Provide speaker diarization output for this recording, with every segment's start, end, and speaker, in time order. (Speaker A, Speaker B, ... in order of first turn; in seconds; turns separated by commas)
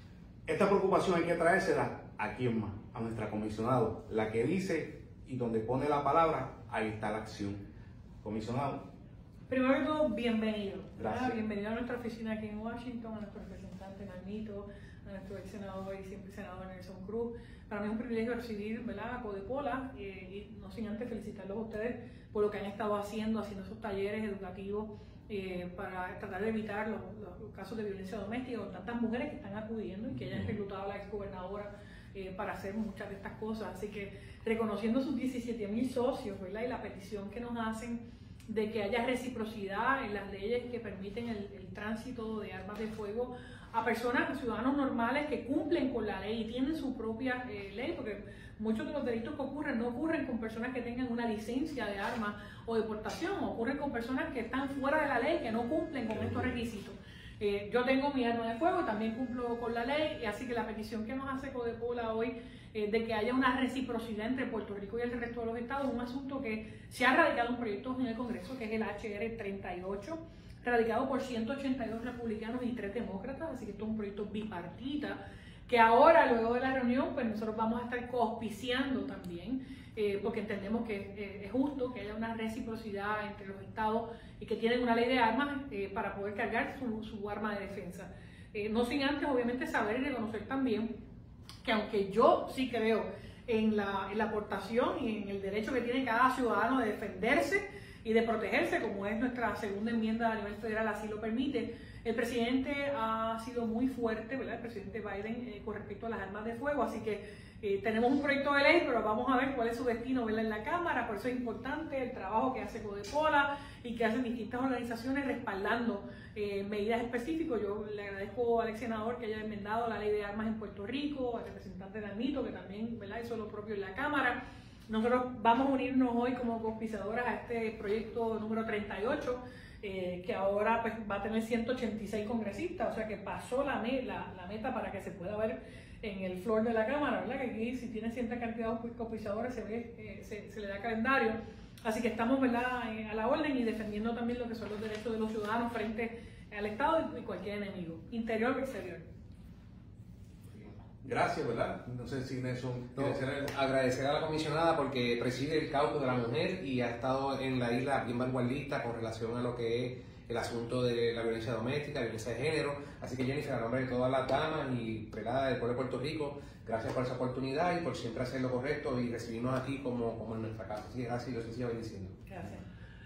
Speaker A: 0.5-7.6, Speaker A: 8.2-8.8, Speaker B: 9.5-90.9, Speaker A: 10.9-11.4, Speaker B: 91.6-149.1, Speaker A: 151.0-153.3, Speaker C: 152.9-172.2, Speaker B: 172.3-172.6